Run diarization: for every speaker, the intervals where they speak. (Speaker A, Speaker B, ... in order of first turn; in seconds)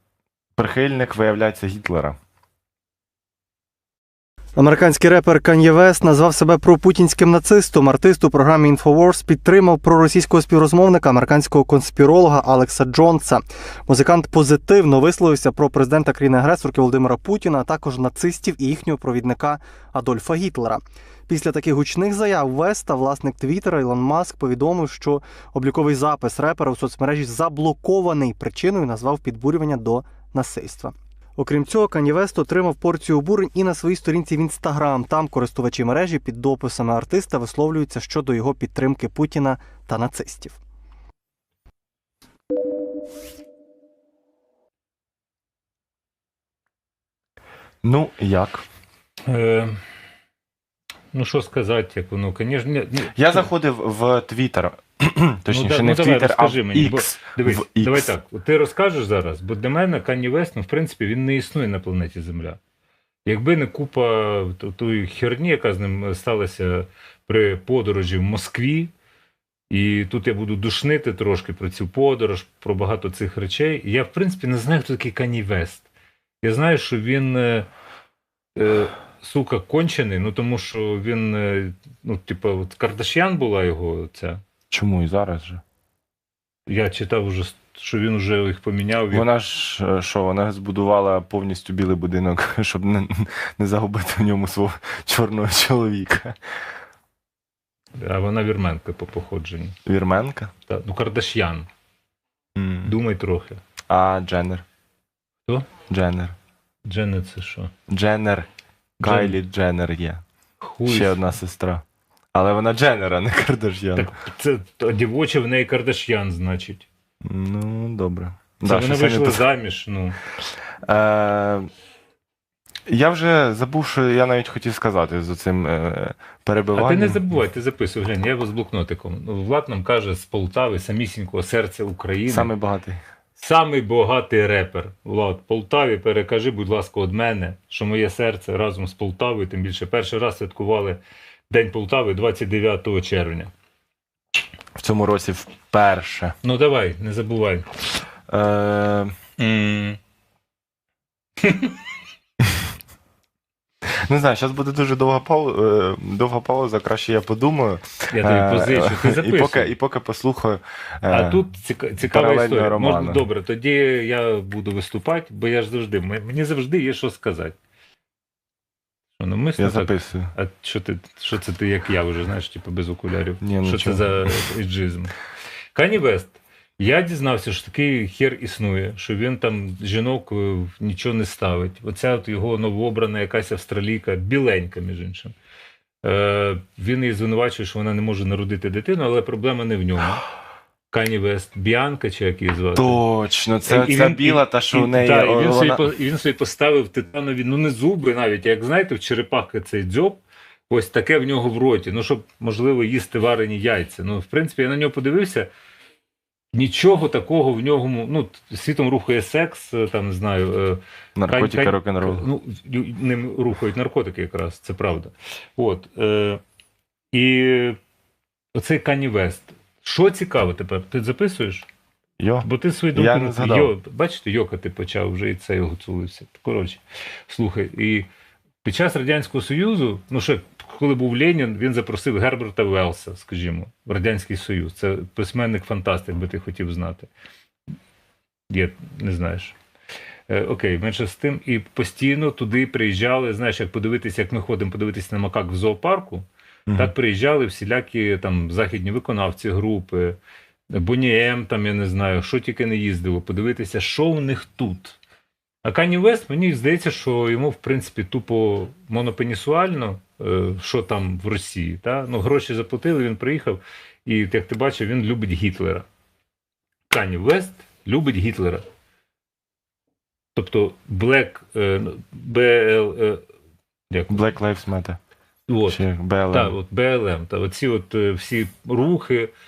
Speaker A: 0.6-2.2, 47.8-48.6, 53.1-58.1, 84.7-85.6, 89.1-96.3, 99.8-100.5, 102.5-102.9, 103.9-104.6, 105.9-106.3, 107.9-108.5, 109.0-110.2, 110.8-114.1, 117.2-119.4, 120.8-121.7, 122.9-127.2, 132.2-133.0, 144.8-146.3, 148.3-149.1, 154.0-161.4, 162.0-163.2, 169.6-170.3, 173.4-174.4, 192.7-195.8, 211.2-212.3, 222.2-223.7, 274.1-275.0, 275.6-276.6
Speaker B: 4.5-40.6
Speaker C: 49.3-49.8, 51.1-53.5, 55.5-62.6, 63.2-68.9, 69.7-75.9, 76.4-77.7, 78.5-84.4, 86.7-89.2, 98.0-99.8, 100.7-101.7, 102.8-103.6, 106.8-107.7, 109.0-109.3, 110.6-111.2, 114.0-116.8, 118.6-120.2, 126.7-132.5, 133.4-143.5, 146.4-147.7, 149.4-150.0, 151.4-151.8, 158.1-159.7, 161.1-167.6, 169.2-175.1, 175.7-185.3, 186.0-190.2, 190.9-193.0, 193.7-205.5, 206.5-216.4, 217.1-217.8, 218.5-221.7, 222.4-228.1, 228.6-237.1, 238.5-239.5, 240.3-250.2, 250.7-255.0, 255.6-265.9, 266.9-268.6, 270.3-273.2, 273.9-274.2, 275.5-279.3